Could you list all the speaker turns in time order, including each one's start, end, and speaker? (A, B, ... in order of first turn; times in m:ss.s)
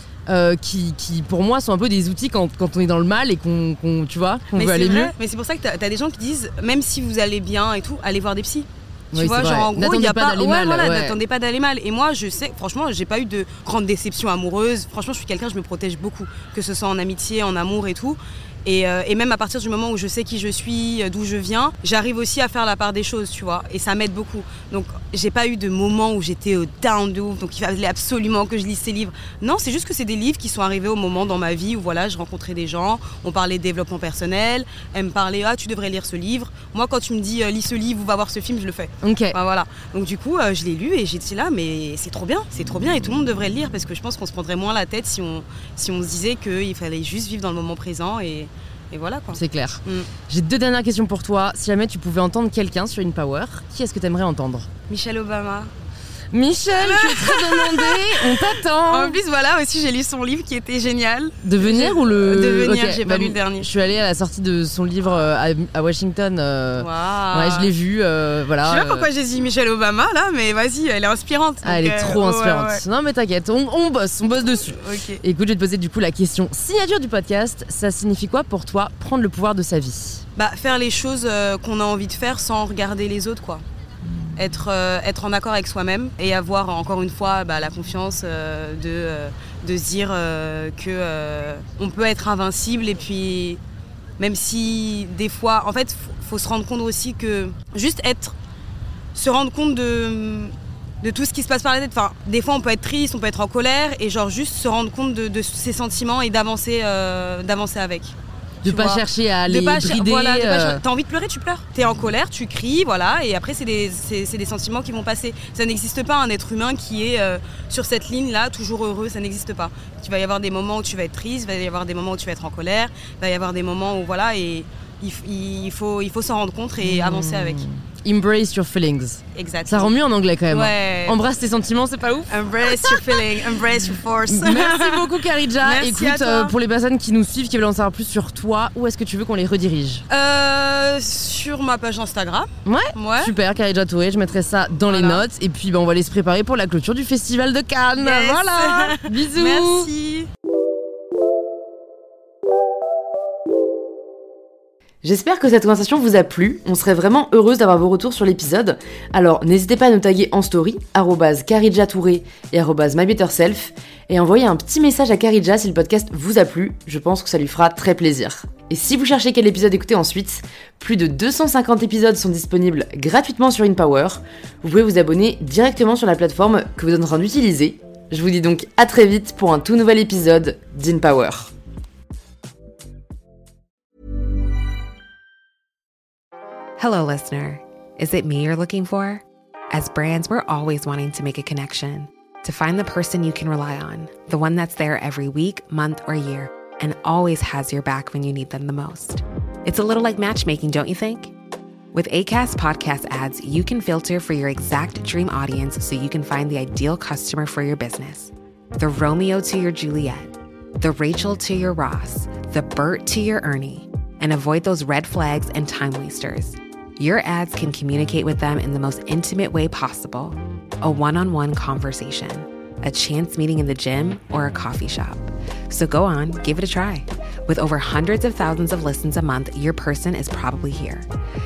0:00.3-0:05.1 A
0:04.6-0:50.1 B
0:09.1-0:11.2 A
0:39.0-0:39.4 A
0:49.3-0:54.7 A
0:54.9-0:55.7 B
0:56.3-0:59.2 A
0:56.8-1:03.7 B
1:01.4-1:09.1 A
1:06.8-1:07.7 B
1:08.6-1:12.8 B
1:11.6-1:20.2 A
1:14.7-1:15.2 B
1:20.4-1:23.6 B
1:24.4-1:33.6 B
1:34.2-1:38.4 B
1:39.2-2:07.6 B
1:48.6-1:50.8 A
2:06.8-2:13.6 A
2:09.4-2:09.9 B
2:10.5-2:11.2 B
2:12.3-2:16.6 B
2:14.3-2:20.0 A
2:20.1-2:23.4 B
2:22.6-2:29.9 A
2:24.8-2:25.2 B
2:28.0-2:30.3 B
2:35.0-3:01.5 C
3:06.8-3:21.3 D
3:21.9-3:51.1 D